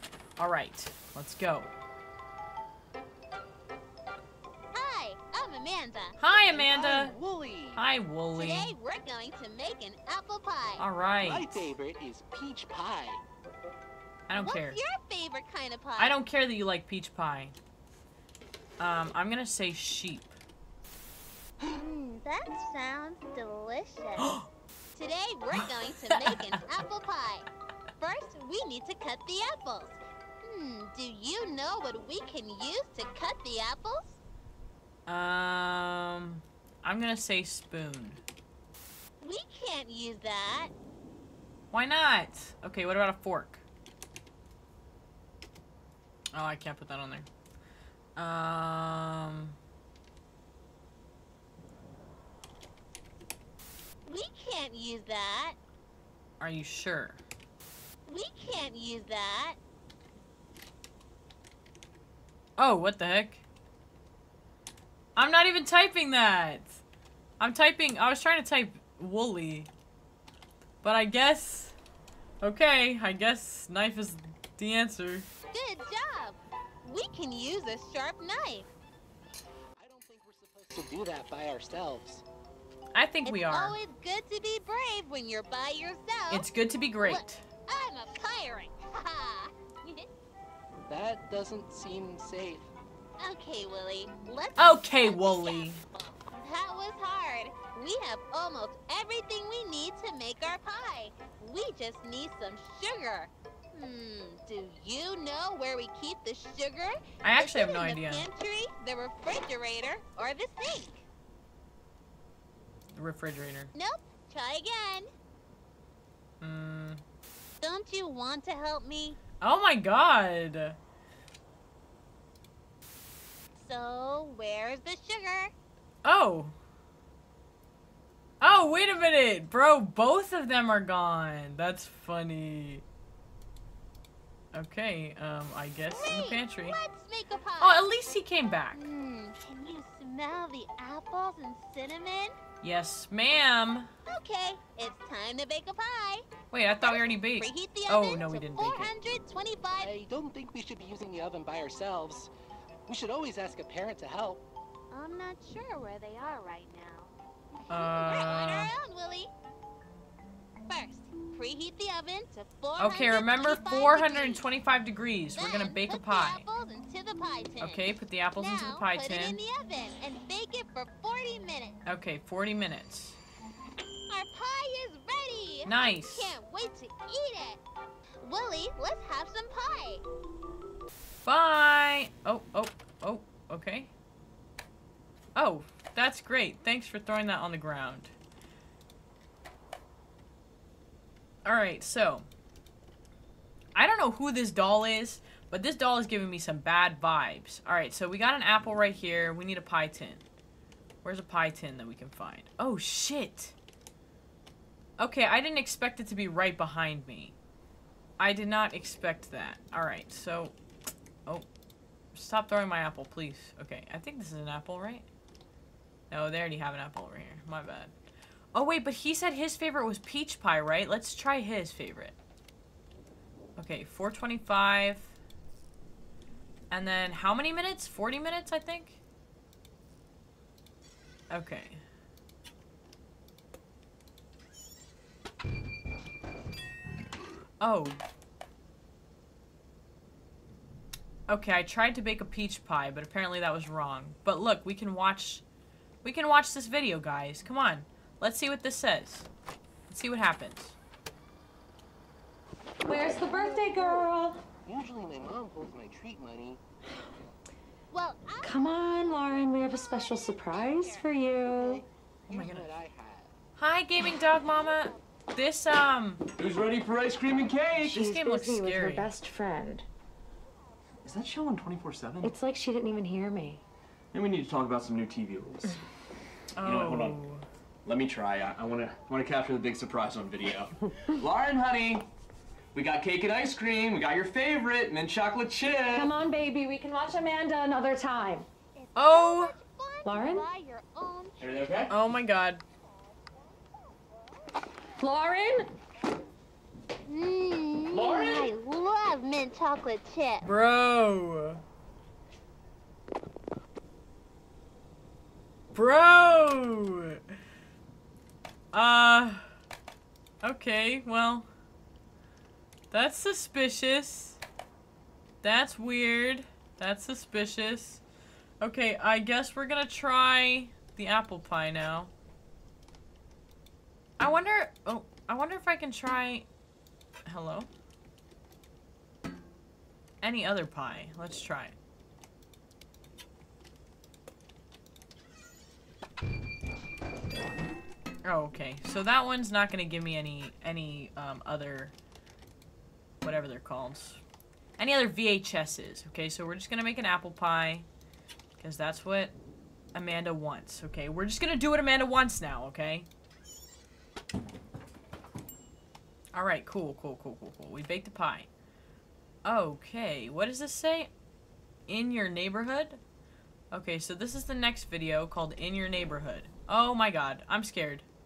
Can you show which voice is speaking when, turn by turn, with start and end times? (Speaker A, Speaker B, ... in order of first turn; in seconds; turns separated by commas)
Speaker A: 0.4-1.7, Speaker B: 4.7-6.2, Speaker A: 6.2-7.2, Speaker C: 6.5-7.8, Speaker A: 7.8-8.7, Speaker B: 8.4-10.8, Speaker A: 10.8-11.7, Speaker C: 11.2-13.2, Speaker A: 14.3-14.8, Speaker B: 14.4-16.2, Speaker A: 16.0-17.6, Speaker A: 18.8-20.4, Speaker B: 21.7-24.3, Speaker A: 24.2-24.5, Speaker B: 24.9-27.5, Speaker A: 25.6-26.6, Speaker B: 28.0-34.2, Speaker A: 35.1-38.2, Speaker B: 39.2-40.7, Speaker A: 41.7-43.6, Speaker A: 46.3-47.3, Speaker A: 48.2-49.6, Speaker B: 54.1-55.6, Speaker A: 56.4-57.2, Speaker B: 58.1-59.6, Speaker A: 62.6-63.4, Speaker A: 65.2-66.8, Speaker A: 67.4-69.7, Speaker A: 70.8-71.8, Speaker A: 72.4-75.3, Speaker B: 75.5-78.7, Speaker C: 79.8-82.2, Speaker A: 82.9-83.8, Speaker B: 83.2-86.5, Speaker A: 86.3-87.5, Speaker B: 87.0-90.1, Speaker C: 90.9-92.7, Speaker B: 93.2-111.0, Speaker A: 94.6-95.8, Speaker A: 107.2-108.3, Speaker A: 113.0-113.7, Speaker B: 113.8-115.1, Speaker A: 116.4-117.0, Speaker B: 117.6-119.2, Speaker A: 119.4-120.8, Speaker B: 123.5-125.5, Speaker A: 126.0-126.5, Speaker A: 128.4-132.8, Speaker A: 134.5-136.8, Speaker B: 135.9-137.9, Speaker A: 137.6-138.8, Speaker B: 138.7-142.4, Speaker A: 142.6-143.9, Speaker B: 144.1-149.9, Speaker A: 146.5-148.9, Speaker C: 149.8-152.3, Speaker C: 152.9-154.4, Speaker B: 154.9-159.3, Speaker A: 157.7-158.7, Speaker B: 160.7-164.5, Speaker A: 162.8-166.4, Speaker B: 165.4-171.8, Speaker A: 167.6-169.4, Speaker A: 171.9-173.2, Speaker B: 174.1-177.6, Speaker A: 175.7-176.3, Speaker B: 178.2-180.0, Speaker A: 181.2-183.9, Speaker A: 185.4-188.1, Speaker A: 191.4-192.3, Speaker A: 193.8-200.2, Speaker A: 201.0-203.6, Speaker A: 205.0-207.4, Speaker A: 208.2-210.6, Speaker A: 212.1-215.1, Speaker A: 216.1-217.9, Speaker A: 218.6-222.2, Speaker A: 223.6-225.2, Speaker A: 226.7-229.0, Speaker A: 231.3-231.8, Speaker A: 237.6-238.0, Speaker A: 241.3-245.4, Speaker A: 246.0-249.3, Speaker A: 249.9-250.8, Speaker D: 252.8-254.4, Speaker C: 253.0-254.1, Speaker C: 254.7-256.6, Speaker B: 257.9-261.1, Speaker D: 258.4-261.8, Speaker C: 261.5-263.3, Speaker A: 262.3-262.7, Speaker A: 263.6-266.2, Speaker E: 266.4-268.0, Speaker A: 267.8-269.1, Speaker D: 267.9-269.9, Speaker E: 271.1-272.4, Speaker D: 272.2-273.6, Speaker E: 274.1-275.8, Speaker A: 276.6-277.4, Speaker E: 276.6-277.2, Speaker E: 277.9-282.1, Speaker E: 282.7-286.1, Speaker D: 285.9-288.5, Speaker B: 288.8-291.7, Speaker A: 289.0-289.6, Speaker D: 290.0-290.5, Speaker E: 291.4-291.9, Speaker A: 291.9-292.6, Speaker D: 295.0-295.6, Speaker B: 297.1-300.5, Speaker E: 297.9-298.5, Speaker A: 300.4-301.6, Speaker A: 305.7-307.2, Speaker A: 308.7-309.5, Speaker A: 310.4-311.5, Speaker A: 312.9-314.4, Speaker A: 315.4-318.0, Speaker A: 318.6-322.1, Speaker A: 324.2-326.5, Speaker A: 327.3-327.7, Speaker A: 330.2-331.8, Speaker A: 338.2-341.9, Speaker A: 343.2-344.2, Speaker A: 344.8-347.9, Speaker A: 348.6-349.4, Speaker A: 349.9-353.1, Speaker A: 356.3-358.5, Speaker A: 359.4-361.1, Speaker A: 361.9-363.0, Speaker A: 363.7-368.1